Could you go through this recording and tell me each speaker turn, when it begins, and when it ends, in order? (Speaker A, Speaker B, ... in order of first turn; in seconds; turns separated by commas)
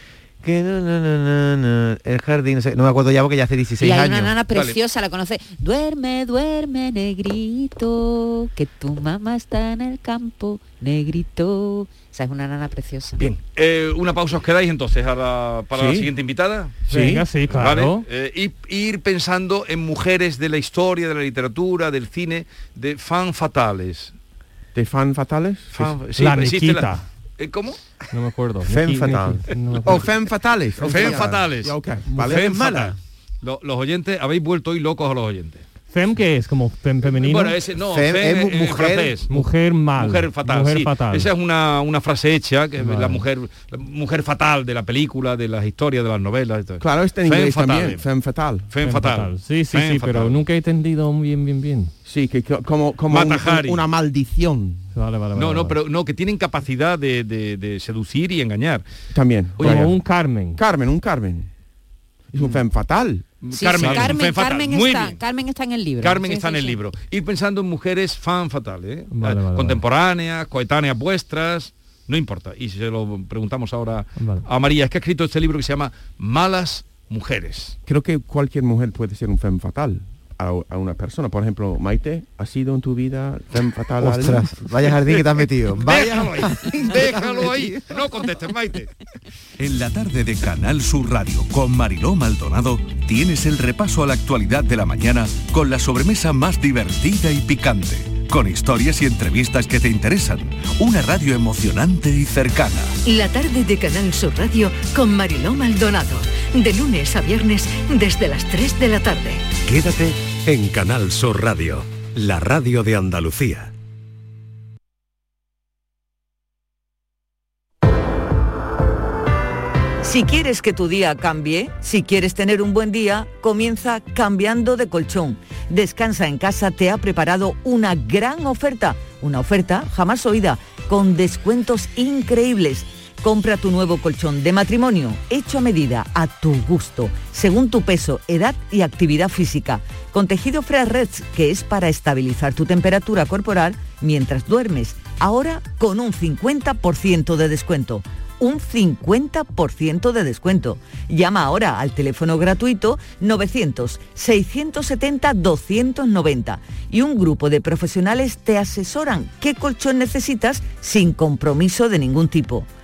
Speaker A: 0.4-4.3, Speaker B: 3.8-13.2, Speaker C: 4.5-4.8, Speaker C: 13.2-16.8, Speaker D: 15.7-16.1, Speaker D: 16.9-17.2, Speaker E: 16.9-18.0, Speaker C: 17.5-24.1, Speaker D: 24.7-25.9, Speaker C: 25.7-27.8, Speaker E: 26.1-27.0, Speaker E: 28.1-30.1, Speaker A: 28.6-29.4, Speaker D: 29.8-32.4, Speaker C: 30.8-35.6, Speaker A: 30.9-31.3, Speaker A: 32.1-33.0, Speaker E: 35.9-37.5, Speaker C: 37.0-39.4, Speaker A: 37.8-39.2, Speaker E: 39.3-41.3, Speaker C: 40.0-48.0, Speaker E: 42.8-43.2, Speaker D: 46.8-48.7, Speaker C: 48.7-50.4, Speaker E: 48.8-51.9, Speaker D: 52.0-54.8, Speaker C: 53.1-53.9, Speaker E: 54.9-55.8, Speaker C: 55.3-58.8, Speaker D: 59.1-60.0, Speaker C: 59.6-59.8, Speaker E: 59.6-60.6, Speaker D: 60.5-61.5, Speaker D: 62.3-64.1, Speaker C: 63.4-65.2, Speaker B: 63.5-66.8, Speaker C: 66.0-77.7, Speaker E: 69.1-69.8, Speaker E: 74.2-74.4, Speaker D: 77.8-84.5, Speaker A: 84.0-87.7, Speaker C: 85.8-88.9, Speaker F: 89.6-103.0, Speaker G: 103.0-109.5, Speaker H: 120.0-162.7